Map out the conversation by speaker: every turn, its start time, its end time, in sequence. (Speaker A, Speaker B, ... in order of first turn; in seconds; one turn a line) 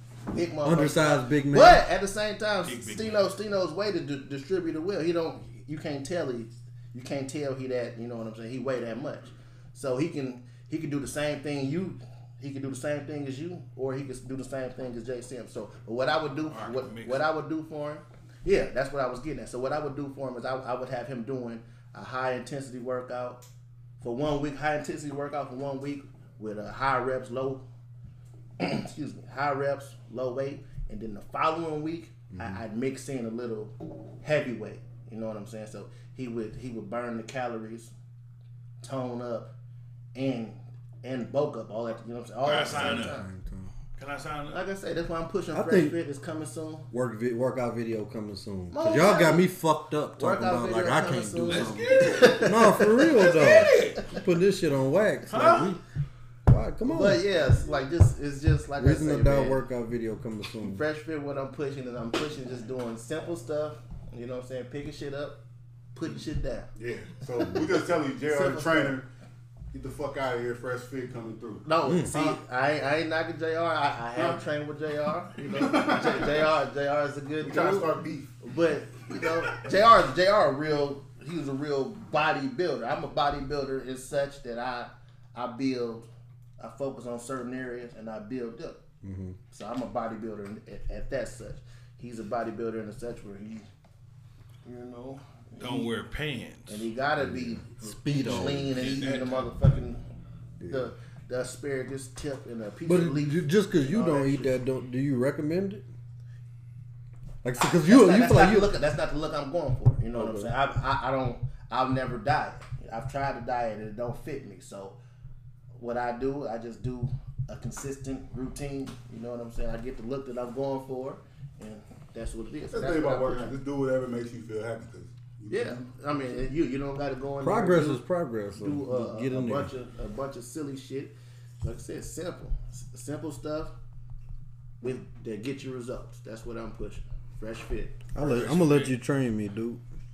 Speaker A: 0.3-23.4
Speaker B: 0.6-1.8
Speaker C: 2.6-3.3
Speaker C: 16.5-17.3
Speaker A: 24.0-27.6
Speaker A: 28.6-37.9
Speaker B: 32.3-32.6
Speaker A: 38.8-39.5
Speaker A: 40.1-43.3
Speaker C: 42.4-43.2
Speaker B: 42.7-43.7
Speaker C: 44.0-44.7
Speaker A: 44.5-46.9
Speaker B: 45.5-46.0
Speaker B: 46.9-55.8
Speaker A: 48.7-49.5
Speaker A: 50.2-54.2
Speaker C: 51.4-54.1
Speaker C: 55.3-55.8
Speaker B: 56.5-57.2
Speaker A: 56.8-59.6
Speaker B: 58.8-60.8
Speaker A: 60.6-65.4
Speaker A: 65.9-66.7
Speaker D: 66.8-69.1
Speaker A: 68.2-69.0
Speaker D: 69.7-71.7
Speaker A: 71.6-77.9
Speaker B: 71.8-72.3
Speaker D: 74.1-74.4
Speaker D: 75.4-76.5
Speaker D: 77.4-78.3
Speaker A: 78.4-86.1
Speaker A: 86.6-88.8
Speaker B: 89.0-89.4
Speaker A: 89.5-93.7
Speaker A: 94.6-95.9
Speaker C: 95.6-96.8
Speaker A: 96.7-100.0
Speaker B: 97.2-98.7
Speaker C: 98.5-99.5
Speaker B: 100.6-100.9
Speaker A: 100.7-104.6
Speaker B: 102.8-105.8
Speaker B: 107.4-108.7
Speaker A: 107.6-115.0
Speaker B: 110.1-110.5
Speaker A: 115.8-123.5
Speaker D: 122.7-126.5
Speaker A: 125.5-128.0
Speaker B: 127.4-129.7
Speaker A: 128.5-133.7
Speaker A: 134.8-138.1
Speaker B: 138.1-139.8
Speaker C: 138.2-138.9